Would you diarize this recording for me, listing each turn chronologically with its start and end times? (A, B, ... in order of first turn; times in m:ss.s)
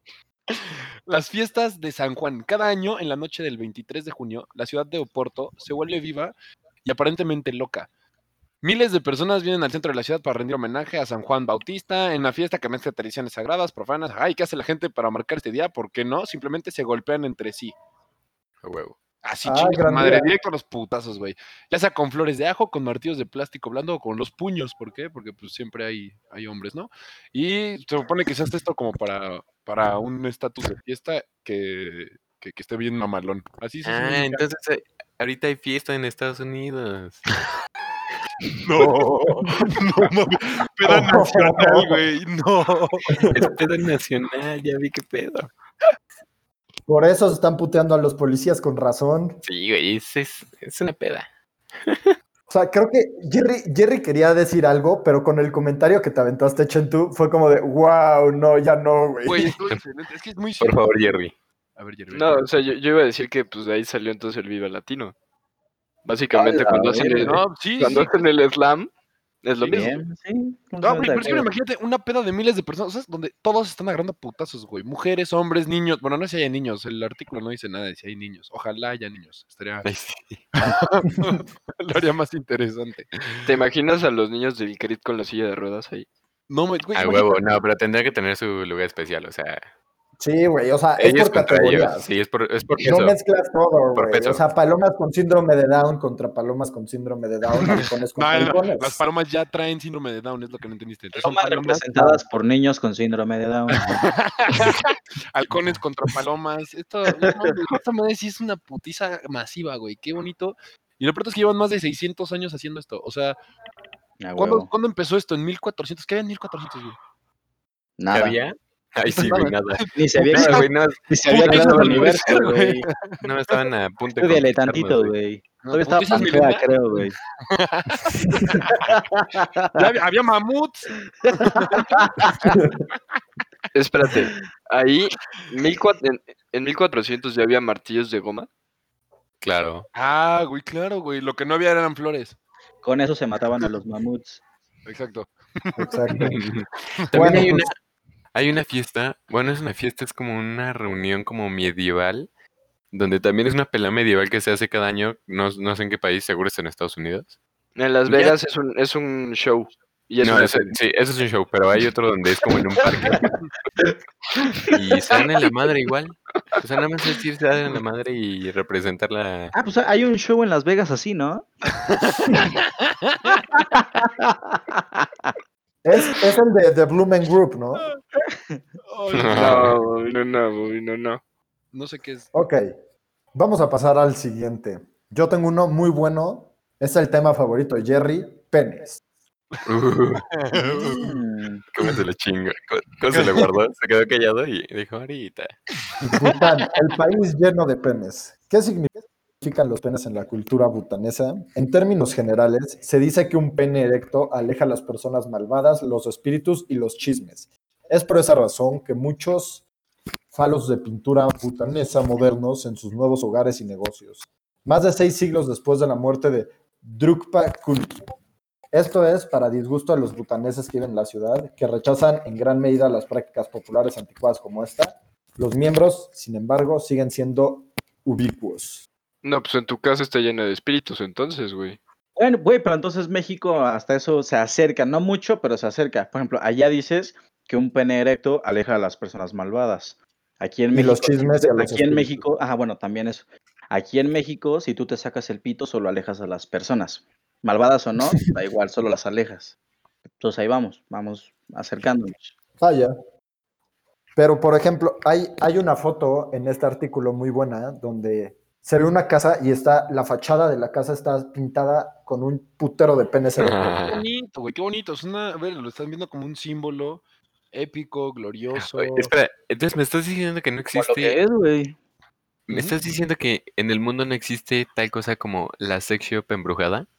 0:00.5-0:07.9 A
0:08.6-0:17.7 A
0:18.6-0:19.0 B
0:19.2-0:34.4 A
0:19.4-0:20.3 C
0:33.8-0:37.2 B
0:38.6-0:43.2 A
0:40.9-0:42.0 C
0:43.1-0:43.5 C
0:43.3-0:45.5 B
0:46.9-0:49.4 C
0:49.4-0:51.3 B
0:51.8-0:52.1 B
0:52.5-0:59.6 C
0:59.2-1:01.0 A
1:00.6-1:01.3 B
1:01.8-1:02.5 A
1:02.1-1:05.2 D
1:06.0-1:08.9 D
1:06.3-1:07.4 E
1:07.2-1:08.2 A
1:09.4-1:10.0 D
1:09.6-1:11.5 E
1:10.8-1:19.9 A
1:19.8-1:20.6 B
1:20.6-1:23.2 A
1:23.4-1:26.1 D
1:26.5-1:27.4 A
1:27.0-1:29.6 B
1:30.2-1:32.1 C
1:31.0-1:33.2 B
1:32.8-1:39.0 C
1:33.9-1:34.4 B
1:37.6-1:42.2 A
1:41.1-1:44.0 E
1:43.7-1:53.4 A
1:47.1-1:47.5 E
1:54.2-1:54.7 E
1:54.4-1:57.0 A
1:58.0-1:58.4 E
1:58.1-2:02.4 B
1:59.1-2:00.7 A
2:00.0-2:02.9 E
2:01.3-2:03.2 A
2:03.2-2:05.1 B
2:04.2-2:07.2 E
2:05.6-2:09.0 A
2:08.3-2:08.6 C
2:08.6-2:09.8 E
2:09.7-2:12.6 A
2:11.2-2:12.5 E
2:12.5-2:12.8 C
2:13.7-2:18.5 D
2:19.4-2:19.9 B
2:19.9-2:22.4 A
2:22.8-2:24.4 E
2:24.9-2:26.3 A
2:25.8-2:26.4 C
2:26.2-2:27.8 B
2:27.0-2:27.5 A
2:27.1-2:27.7 C
2:28.3-2:32.3 B
2:32.9-2:37.4 B
2:37.8-2:40.8 D
2:38.1-2:38.4 B
2:40.2-2:43.4 B
2:44.6-2:49.5 B
2:49.5-2:51.5 E
2:51.8-2:53.4 A
2:53.3-2:55.3 E
2:55.8-2:57.9 C
2:58.8-2:59.8 A
2:59.1-2:59.8 B
2:59.3-3:01.2 D
3:01.7-3:02.3 A
3:02.3-3:02.8 C
3:03.3-3:09.0 C
3:09.7-3:10.3 B
3:10.3-3:11.1 A
3:11.0-3:11.6 E
3:11.7-3:15.6 B
3:13.1-3:13.5 A
3:16.0-3:29.6 C
3:30.3-3:38.0 C
3:38.7-3:48.9 C
3:49.2-3:51.8 D
3:52.2-4:09.6 E
4:00.7-4:02.3 C
4:10.2-4:12.4 E
4:12.6-4:12.9 C
4:14.2-4:23.8 C
4:23.4-4:24.0 B
4:23.8-4:29.1 A
4:28.6-4:31.2 B
4:30.7-4:31.8 E
4:32.5-4:36.9 B
4:32.5-4:32.8 A